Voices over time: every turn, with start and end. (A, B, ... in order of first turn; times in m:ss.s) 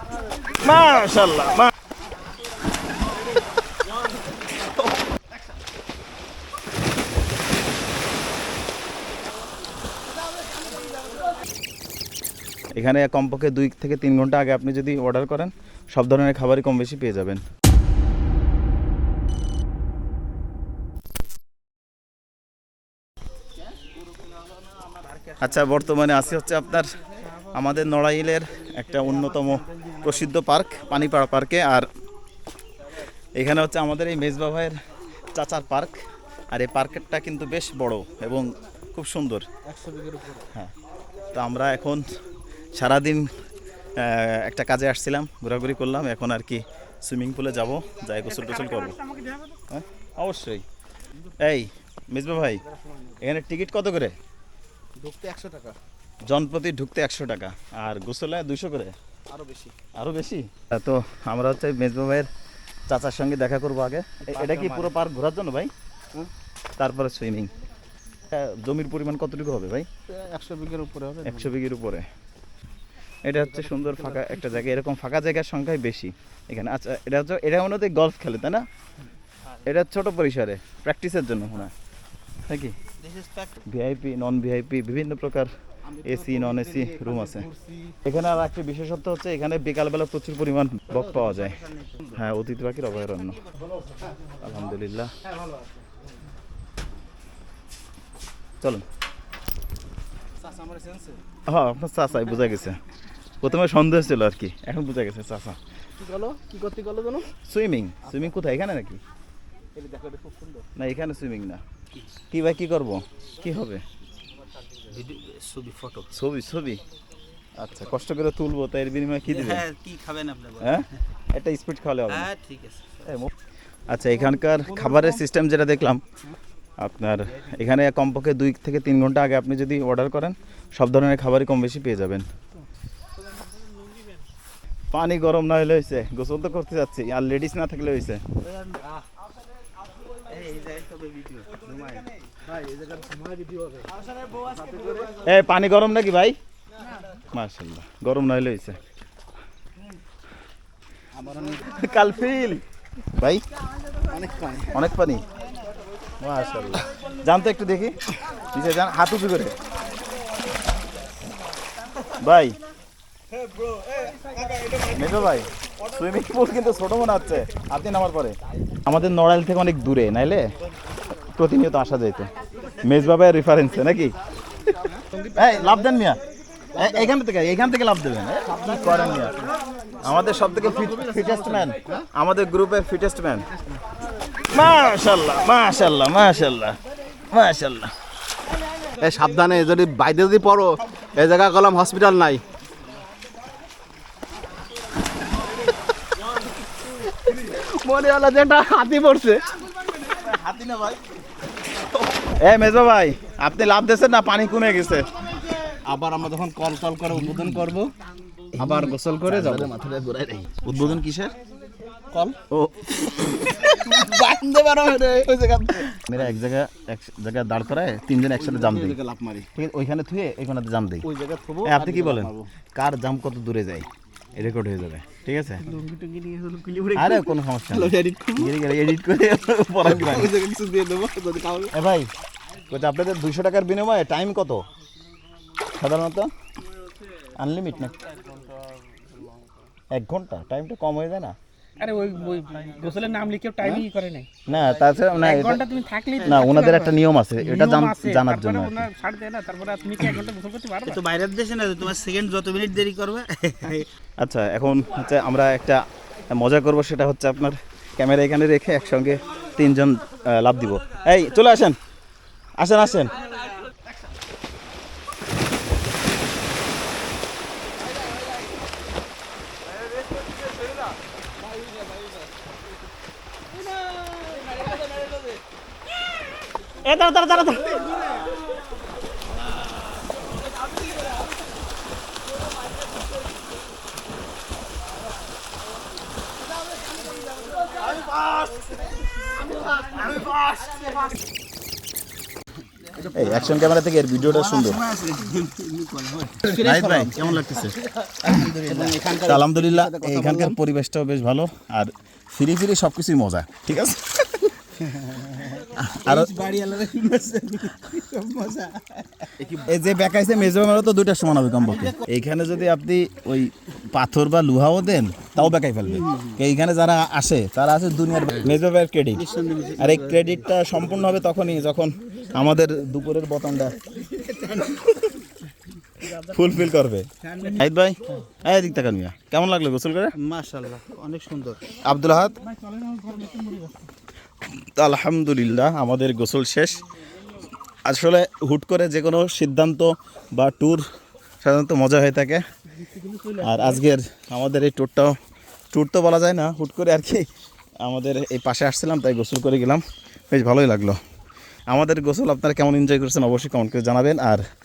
0:00.5-0:01.7 A
0:12.7-0:17.4 A
0:24.9-0:25.2 B
0:25.4-0:31.9 A
0:29.3-0:30.1 B
0:33.4-0:34.8 A
0:35.3-0:39.5 A
0:39.6-0:40.5 B
0:41.3-0:42.1 A
0:42.7-0:43.3 A
0:44.0-0:49.0 A
0:48.4-0:49.5 C
0:49.7-0:50.6 A
0:51.4-0:52.6 A
0:52.6-0:53.2 B
0:53.2-0:54.2 A
0:55.0-0:55.8 B
0:56.3-0:58.9 A
0:59.3-0:59.7 B
0:59.9-1:02.3 A
1:02.9-1:05.7 A
1:04.3-1:04.9 B
1:06.8-1:07.5 A
1:08.3-1:09.9 A
1:10.1-1:11.5 B
1:11.2-1:12.0 A
1:13.2-1:18.6 A
1:13.3-1:14.5 B
1:19.6-1:21.7 A
1:22.4-1:22.7 A
1:23.0-1:23.5 D
1:23.6-1:25.5 A
1:25.8-1:28.0 B
1:26.0-1:27.5 A
1:28.0-1:33.4 A
1:34.4-1:35.1 A
1:40.4-1:41.2 B
1:41.5-1:42.8 A
1:43.4-1:45.6 A
1:46.0-1:47.3 B
1:47.4-1:49.0 A
1:49.7-1:50.6 B
1:50.7-1:51.6 A
1:52.3-1:53.8 A
1:54.9-1:56.1 D
1:56.1-1:56.8 A
1:57.6-1:59.7 A
1:59.3-2:00.8 D
2:00.6-2:02.3 A
2:02.1-2:03.0 D
2:03.0-2:03.3 A
2:03.9-2:06.0 A
2:06.8-2:12.2 A
2:14.9-2:18.2 A
2:20.3-2:22.0 D
2:21.5-2:23.9 B
2:24.4-2:25.1 B
2:25.2-2:26.4 A
2:27.3-2:28.8 A
2:31.1-2:31.7 B
2:31.6-2:32.6 A
2:33.1-2:33.4 A
2:34.0-2:34.8 B
2:34.7-2:35.2 A
2:36.2-2:39.6 A
2:42.1-2:42.6 A
2:44.0-2:44.7 B
2:44.8-2:48.3 A
2:48.8-2:50.5 A
2:51.3-2:52.3 A
2:52.8-2:54.2 A
2:55.2-2:56.2 A
2:56.7-2:59.4 A
2:56.8-2:57.0 B
2:58.6-2:59.4 B
3:00.0-3:03.5 A
3:00.6-3:02.0 B
3:04.4-3:07.9 A
3:09.0-3:12.4 B
3:16.9-3:19.5 B
3:20.2-3:20.9 A
3:22.3-3:25.1 A
3:25.7-3:27.9 B
3:28.5-3:30.7 B
3:28.6-3:31.3 A
3:32.1-3:32.4 B
3:32.5-3:33.9 A
3:33.6-3:36.2 B
3:35.8-3:39.0 A
3:38.3-3:39.5 B
3:39.5-3:41.1 A
3:41.0-3:42.5 B
3:41.6-3:45.7 A
3:45.6-3:48.5 B
3:47.0-3:50.3 A
3:49.8-3:51.7 B
3:51.7-3:52.1 A
3:52.7-3:54.6 A
3:55.8-3:56.3 A
3:57.4-3:58.0 A
3:58.2-3:58.4 B
3:59.9-4:01.4 A
4:01.8-4:04.3 C
4:04.5-4:05.7 A
4:05.2-4:11.0 C
4:06.2-4:08.9 A
4:10.8-4:13.9 D
4:14.2-4:21.8 A
4:22.6-4:23.2 A
4:36.8-4:38.2 A
4:53.0-4:53.7 B
4:53.1-4:54.9 A
4:54.2-5:00.6 B
4:56.4-5:04.5 A
5:04.9-5:09.6 B
5:05.6-5:06.3 A
5:09.4-5:25.1 A
5:16.0-5:16.3 B
5:19.3-5:19.8 B
5:19.4-5:20.2 D
5:26.0-5:30.1 A
5:27.3-5:27.5 B
5:30.2-5:31.7 D
5:31.8-5:32.4 A
5:32.4-5:33.9 C
5:34.5-5:36.8 A
5:37.8-5:40.8 A
5:41.4-5:42.4 A
5:42.8-5:43.8 C
5:43.4-5:45.2 A
5:45.7-5:47.3 A
5:47.8-5:51.0 A
5:51.7-5:54.4 A